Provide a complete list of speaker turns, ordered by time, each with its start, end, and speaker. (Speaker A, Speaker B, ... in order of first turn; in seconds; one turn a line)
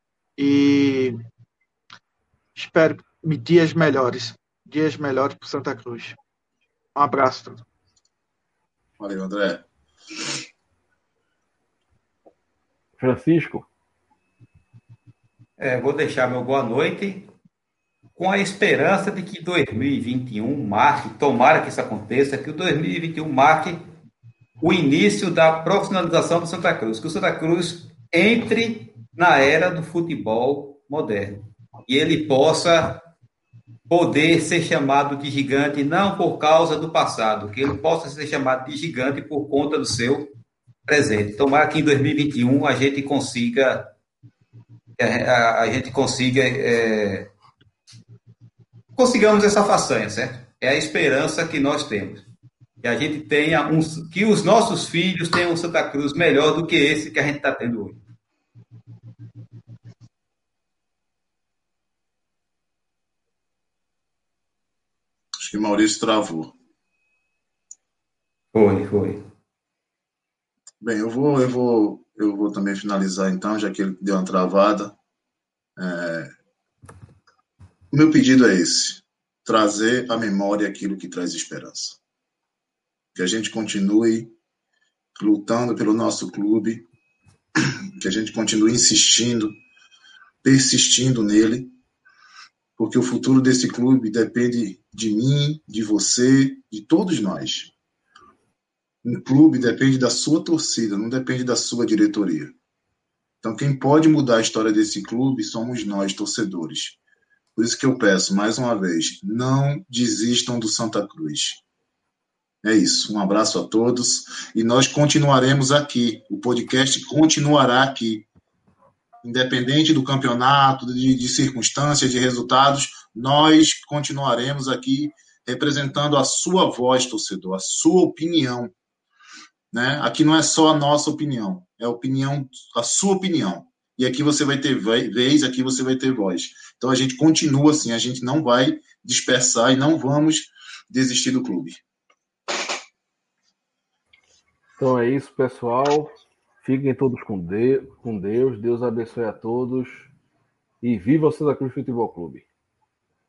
Speaker A: 0.4-1.1
Speaker A: 2.5-6.2
Speaker A: 6.9-7.6
Speaker B: 9.0-9.6
Speaker C: 13.0-13.7
Speaker D: 15.6-17.3
Speaker D: 18.2-23.8
Speaker D: 24.6-33.0
Speaker D: 33.9-40.3
Speaker D: 40.9-43.9
Speaker D: 45.0-47.3
Speaker D: 48.9-52.2
Speaker D: 52.8-58.0
Speaker B: 65.4-66.5
Speaker D: 68.5-69.2
Speaker B: 70.8-75.0
Speaker B: 75.8-76.3
Speaker B: 77.9-82.0
Speaker B: 83.2-84.3
Speaker B: 85.2-86.8
Speaker B: 88.0-89.5
Speaker B: 90.4-91.7
Speaker B: 92.8-97.7
Speaker B: 99.0-102.5
Speaker B: 103.4-107.0
Speaker B: 107.5-111.6
Speaker B: 112.6-118.2
Speaker B: 119.2-128.7
Speaker B: 129.7-141.8
Speaker C: 144.8-150.1
Speaker C: 150.8-152.4